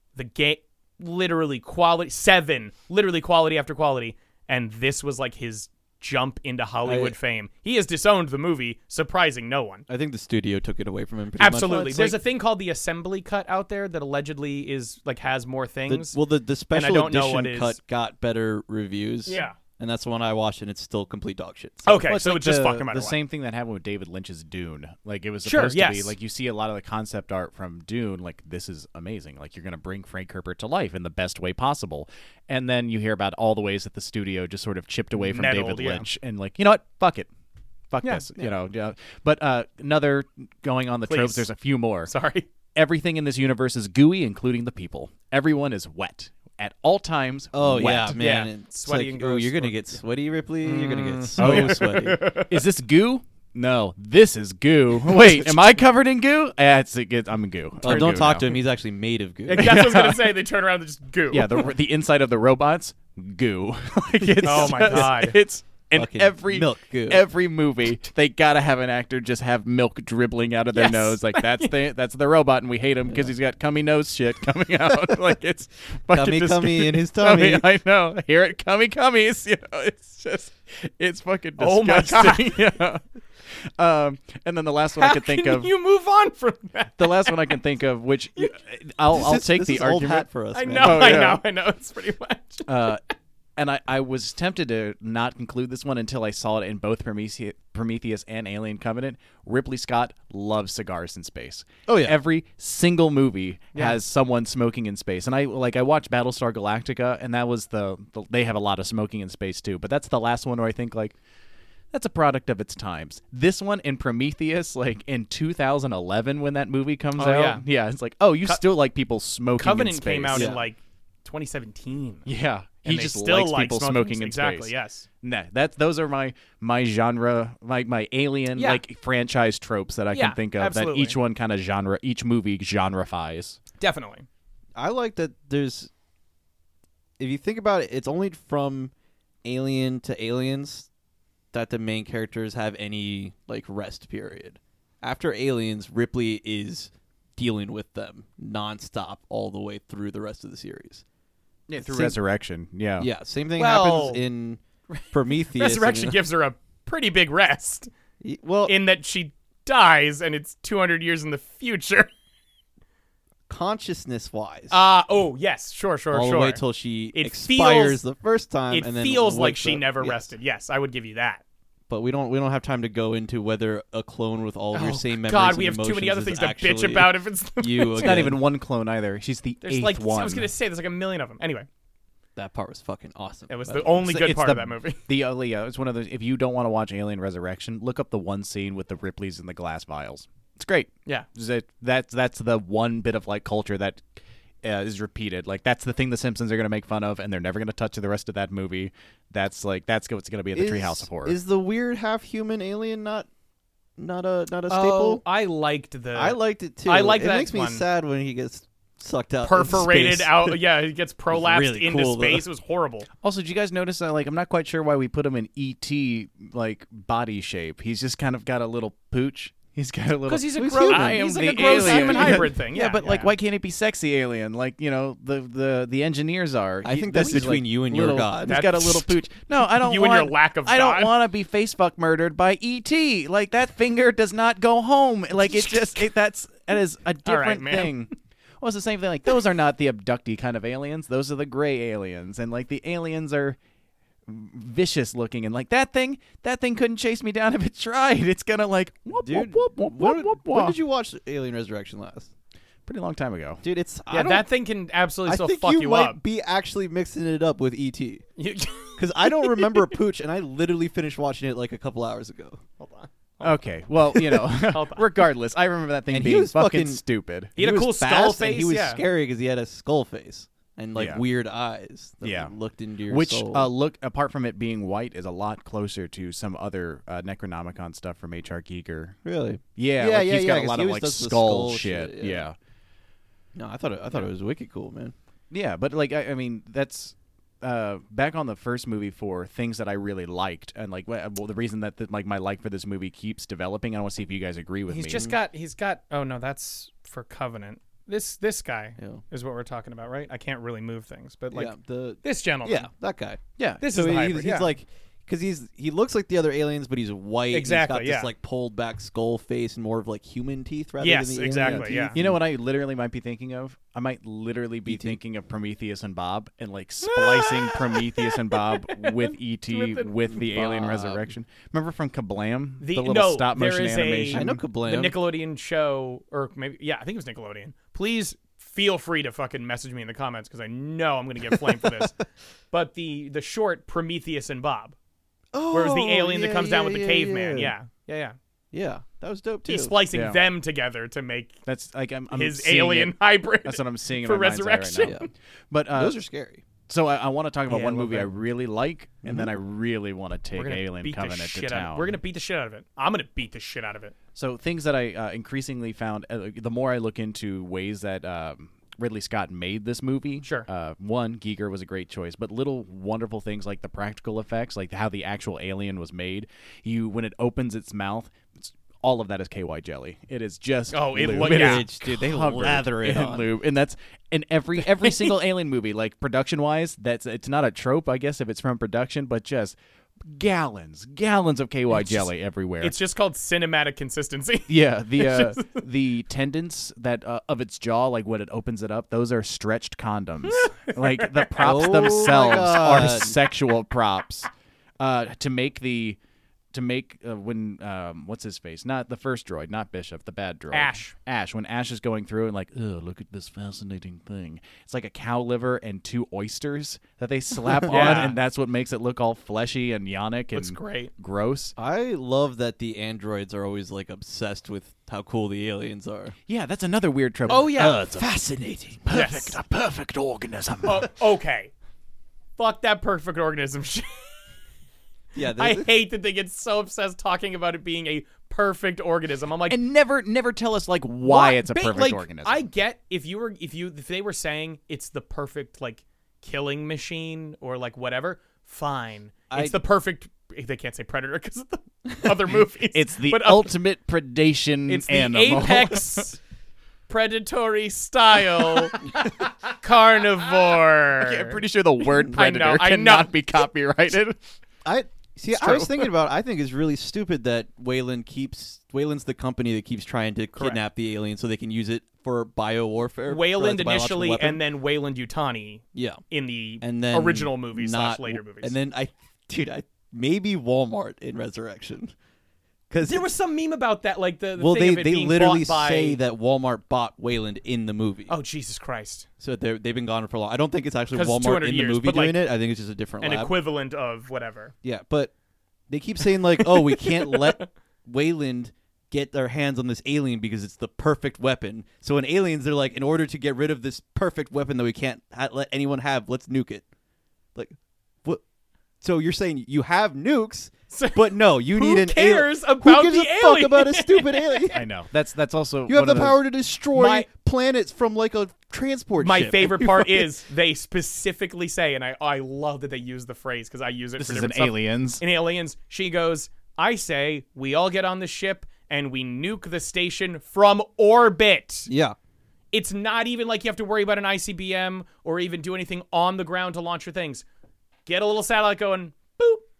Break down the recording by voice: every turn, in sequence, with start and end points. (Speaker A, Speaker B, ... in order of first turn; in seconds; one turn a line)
Speaker A: 0.2-9.9
Speaker B: 6.8-7.2
Speaker B: 9.9-12.2
Speaker A: 11.4-16.2
Speaker C: 11.4-12.1
Speaker B: 15.9-22.0
Speaker A: 16.7-17.8
Speaker A: 19.3-19.6
Speaker A: 21.9-23.2
Speaker C: 22.0-37.3
Speaker A: 25.4-26.1
Speaker A: 35.2-36.1
Speaker C: 37.9-42.1
Speaker A: 41.1-41.5
Speaker A: 42.1-42.5
Speaker C: 42.8-48.2
Speaker B: 47.5-52.2
Speaker A: 47.8-50.0
Speaker A: 50.6-52.5
Speaker C: 51.4-58.6
Speaker B: 57.8-59.8
Speaker A: 59.5-61.7
Speaker C: 59.6-60.4
Speaker C: 61.3-85.7
Speaker A: 64.4-65.4
Speaker B: 66.0-67.2
Speaker A: 70.7-71.8
Speaker B: 73.1-73.3
Speaker B: 76.1-77.7
Speaker A: 81.6-82.7
Speaker A: 85.0-87.6
Speaker C: 87.0-90.3
Speaker B: 89.1-91.3
Speaker A: 90.5-92.9
Speaker C: 90.8-91.4
Speaker C: 92.7-93.0
Speaker C: 93.6-111.2
Speaker B: 101.9-102.2
Speaker C: 111.9-120.6
Speaker A: 117.2-117.7
Speaker A: 119.6-122.3
Speaker B: 120.3-120.6
Speaker C: 122.3-133.6
Speaker A: 122.8-125.1
Speaker A: 128.6-128.8
Speaker A: 130.1-131.2
Speaker A: 133.8-134.3
Speaker B: 134.8-135.9
Speaker B: 137.2-138.9
Speaker B: 139.4-140.9
Speaker B: 141.5-151.0
Speaker C: 151.7-153.1
Speaker B: 151.8-152.2
Speaker B: 153.0-156.2
Speaker A: 153.6-154.2
Speaker A: 154.9-157.9
Speaker B: 158.2-158.7
Speaker A: 158.7-162.1
Speaker B: 163.5-164.8
Speaker A: 164.7-166.6
Speaker B: 166.1-170.3
Speaker A: 167.1-168.0
Speaker A: 168.7-171.4
Speaker B: 171.9-178.4
Speaker A: 174.7-178.3
Speaker C: 178.0-180.5
Speaker A: 179.6-181.7
Speaker B: 182.4-184.0
Speaker A: 183.5-185.0
Speaker C: 184.0-194.1
Speaker C: 194.6-201.4
Speaker B: 200.6-203.3
Speaker B: 204.0-205.2
Speaker A: 204.7-207.8
Speaker B: 206.2-210.6
Speaker A: 209.4-213.1
Speaker B: 211.3-212.4
Speaker C: 213.2-243.6
Speaker A: 220.3-223.3
Speaker B: 220.6-222.5
Speaker B: 226.8-228.6
Speaker A: 228.4-229.2
Speaker A: 229.7-231.1
Speaker A: 235.7-236.0
Speaker A: 237.2-237.9
Speaker C: 244.3-250.8
Speaker B: 249.2-252.3
Speaker C: 252.9-253.6
Speaker B: 253.6-254.4
Speaker A: 254.1-256.2
Speaker B: 255.3-258.2
Speaker A: 258.4-259.9
Speaker B: 259.0-262.6
Speaker A: 262.8-263.6
Speaker C: 263.4-267.6
Speaker A: 264.1-265.2
Speaker B: 266.1-267.0
Speaker A: 267.6-269.0
Speaker B: 267.6-273.7
Speaker C: 270.9-271.2
Speaker C: 272.2-272.5
Speaker C: 273.1-279.2
Speaker B: 279.2-282.5
Speaker C: 279.8-282.6
Speaker B: 283.6-285.1
Speaker C: 285.5-295.3
Speaker A: 294.9-302.9
Speaker B: 301.5-312.4
Speaker C: 303.6-303.8
Speaker A: 303.8-304.7
Speaker A: 307.5-308.3
Speaker A: 311.0-312.2
Speaker C: 311.6-324.6
Speaker B: 314.9-315.2
Speaker A: 317.0-320.1
Speaker B: 320.3-321.3
Speaker A: 322.8-335.0
Speaker B: 324.3-325.2
Speaker B: 335.5-337.7
Speaker A: 335.7-338.4
Speaker B: 338.7-339.9
Speaker A: 339.7-341.6
Speaker C: 340.1-340.4
Speaker C: 341.7-346.2
Speaker A: 342.3-345.3
Speaker B: 345.0-345.3
Speaker B: 345.9-346.6
Speaker C: 346.9-352.1
Speaker A: 347.7-348.3
Speaker B: 349.2-349.5
Speaker A: 350.5-354.1
Speaker C: 354.4-383.0
Speaker A: 360.4-360.7
Speaker A: 370.9-371.9
Speaker B: 371.3-373.5
Speaker A: 375.0-375.3
Speaker A: 381.9-382.3
Speaker A: 382.8-385.8
Speaker C: 384.7-396.2
Speaker A: 390.5-392.1
Speaker B: 391.6-393.4
Speaker C: 396.7-411.8
Speaker A: 400.7-401.1
Speaker B: 407.7-408.3
Speaker A: 407.9-408.4
Speaker A: 410.5-411.1
Speaker B: 411.8-416.4
Speaker C: 416.5-421.1
Speaker A: 417.5-418.0
Speaker B: 417.5-419.0
Speaker A: 419.1-419.6
Speaker A: 420.8-421.7
Speaker A: 422.6-424.3
Speaker B: 425.4-425.9
Speaker A: 425.4-429.8
Speaker C: 429.7-432.6
Speaker A: 431.2-443.7
Speaker B: 439.5-439.8
Speaker C: 442.9-446.3
Speaker A: 444.9-446.4
Speaker A: 447.1-451.6
Speaker C: 448.6-448.9
Speaker C: 450.7-454.4
Speaker A: 452.3-453.4
Speaker B: 454.9-464.6
Speaker C: 455.6-456.0
Speaker A: 460.6-460.8
Speaker A: 463.3-468.8
Speaker B: 465.9-466.2
Speaker B: 466.8-472.1
Speaker B: 472.9-473.3
Speaker A: 473.1-476.2
Speaker B: 474.6-478.4
Speaker A: 478.3-479.3
Speaker B: 479.4-483.5
Speaker A: 481.1-482.5
Speaker A: 483.2-484.7
Speaker B: 484.8-485.3
Speaker B: 485.9-496.9
Speaker A: 486.6-487.7
Speaker B: 497.6-498.4
Speaker B: 499.0-504.8
Speaker A: 500.9-504.8
Speaker C: 504.7-506.4
Speaker B: 505.9-510.3
Speaker A: 506.9-507.3
Speaker A: 509.2-521.9
Speaker C: 514.2-515.2
Speaker B: 521.9-522.2
Speaker A: 522.7-527.4
Speaker A: 528.1-529.6